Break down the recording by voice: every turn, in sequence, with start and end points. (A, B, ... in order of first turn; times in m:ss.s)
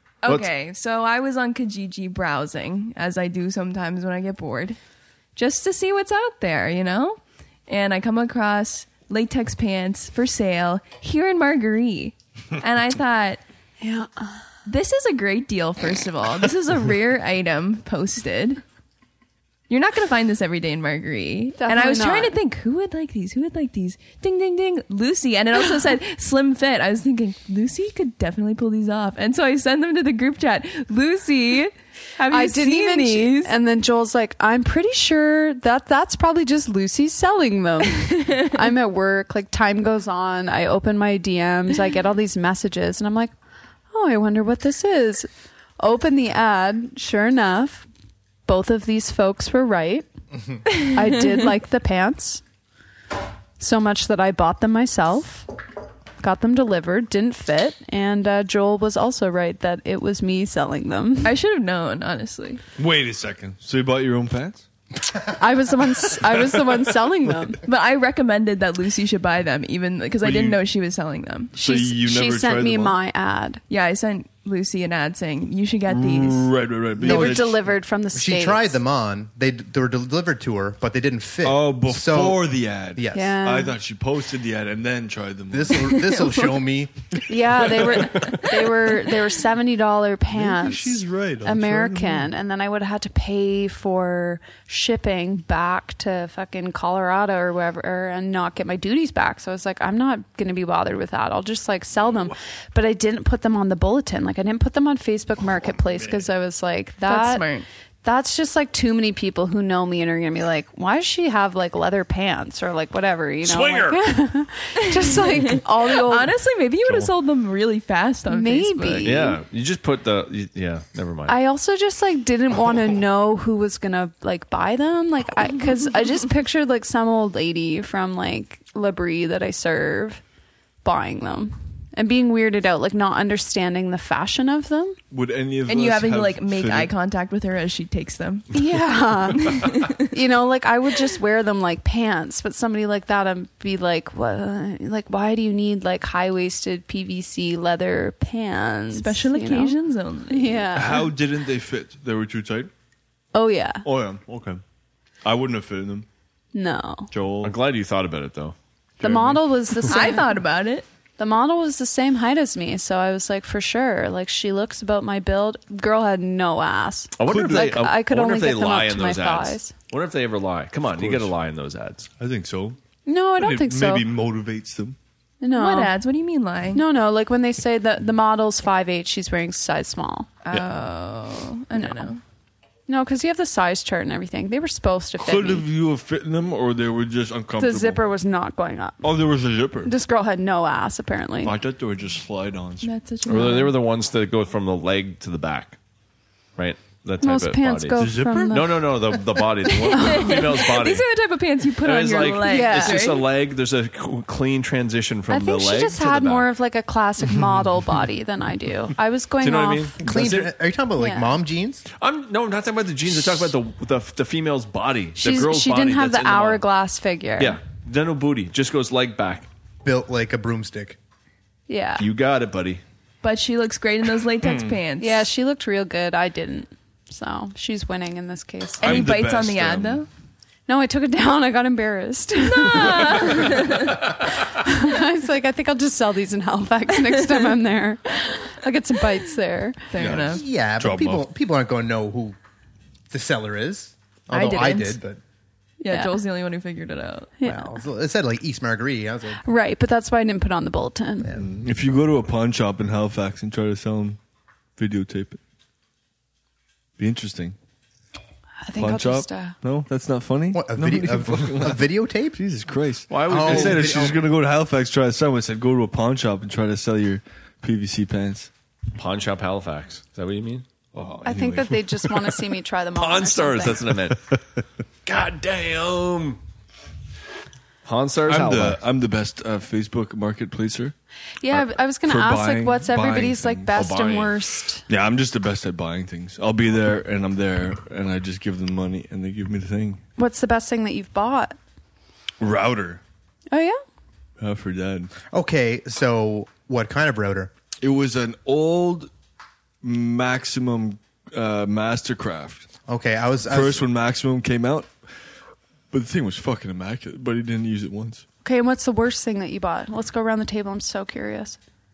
0:00.2-0:04.8 A
0:05.4-0:13.4 A
0:13.8-0:14.4 B
0:14.6-0:18.6 A
0:19.7-0:33.5 A
0:21.6-0:22.3 B
0:32.3-0:43.3 B
0:43.9-0:45.3 B
0:45.8-0:47.9 B
0:48.5-0:50.1 B
0:50.7-0:52.4 B
0:53.6-0:55.5 B
0:56.2-1:01.4 B
1:01.2-1:02.6 A
1:02.8-1:04.7 C
1:05.3-1:07.6 B
1:07.7-1:11.5 A
1:10.2-1:10.6 C
1:11.6-1:13.0 C
1:11.6-1:13.6 B
1:13.7-1:16.5 A
1:15.9-1:17.7 C
1:17.0-1:18.8 B
1:17.0-1:17.5 D
1:18.1-1:23.4 D
1:21.4-1:26.1 C
1:23.1-1:23.8 B
1:25.5-1:26.9 D
1:25.9-1:26.3 A
1:27.3-1:47.4 B
1:27.8-1:28.5 C
1:28.1-1:29.1 A
1:30.3-1:32.3 C
1:47.0-1:47.7 A
1:48.0-1:56.3 B
1:53.4-1:54.2 E
1:54.8-1:59.3 A
1:58.3-1:59.4 B
1:59.0-2:01.4 E
2:01.3-2:10.2 B
2:10.8-2:15.0 B
2:15.1-2:16.9 C
2:15.7-2:18.5 A
2:18.5-2:29.8 B
2:19.3-2:20.1 A
2:28.9-2:30.7 A
2:30.3-2:31.1 B
2:30.7-2:32.7 C
2:33.3-2:33.8 B
2:33.8-2:34.6 C
2:35.2-2:36.1 C
2:36.5-2:37.1 B
2:37.1-2:37.6 C
2:37.4-2:38.6 E
2:39.0-2:39.4 C
2:39.0-2:40.4 B
2:39.8-2:40.9 A
2:41.2-2:49.7 B
2:47.2-2:52.1 E
2:47.3-2:47.8 C
2:51.0-2:51.3 C
2:52.2-2:52.8 C
2:53.0-2:54.1 B
2:53.4-2:55.0 C
2:55.4-2:55.9 B
2:55.6-2:56.8 A
2:56.7-3:00.3 B
3:00.4-3:02.2 A
3:01.8-3:02.1 B
3:02.9-3:05.7 B
3:05.2-3:08.0 C
3:07.6-3:09.0 B
3:09.0-3:10.0 C
3:09.8-3:11.6 B
3:11.4-3:12.9 C
3:12.8-3:13.8 A
3:13.3-3:15.8 E
3:16.6-3:21.1 E
3:17.2-3:19.0 B
3:18.0-3:18.8 C
3:19.7-3:23.3 A
3:20.0-3:20.5 B
3:21.8-3:26.5 E
3:22.4-3:23.2 B
3:25.3-3:30.0 B
3:29.4-3:30.5 E
3:30.0-3:31.8 D
3:31.0-3:31.4 B
3:32.0-3:36.6 E
3:35.2-3:37.6 B
3:37.4-3:39.5 E
3:39.8-3:41.0 D
3:41.7-3:42.0 B
3:42.0-3:42.8 E
3:43.2-3:45.3 A
3:45.0-3:49.1 B
3:48.8-3:50.0 C
3:48.8-3:50.1 A
3:50.7-3:59.9 B
3:52.5-3:54.0 A
3:59.9-4:00.4 A
4:00.0-4:01.3 C
4:00.2-4:02.4 D
4:03.1-4:05.2 D
4:04.3-4:05.0 A
4:05.8-4:07.3 A
4:05.9-4:06.2 B
4:07.4-4:07.8 B
4:07.4-4:09.4 D
4:09.4-4:11.3 B
4:11.4-4:14.2 C
4:14.8-4:15.4 C
4:17.0-4:17.6 C
4:18.6-4:19.6 B
4:18.7-4:28.5 C
4:20.5-4:22.4 D
4:23.1-4:24.1 E
4:23.3-4:24.2 D
4:29.0-4:30.6 E
4:30.9-4:32.4 C
4:31.2-4:34.0 B
4:33.0-4:34.4 E
4:35.1-4:36.4 E
4:37.8-4:38.8 E
4:38.3-4:40.9 C
4:41.4-4:44.9 B
4:41.5-4:43.7 C
4:43.8-4:44.4 E
4:44.9-4:50.0 C
4:50.2-4:51.6 B
4:52.4-4:53.0 C
4:53.5-4:53.8 B
4:54.4-4:55.1 C
4:55.3-4:57.5 D
4:57.8-4:59.1 C
4:59.8-5:02.7 C
5:02.9-5:03.8 D
5:03.5-5:04.9 C
5:05.9-5:08.2 C
5:08.4-5:11.6 B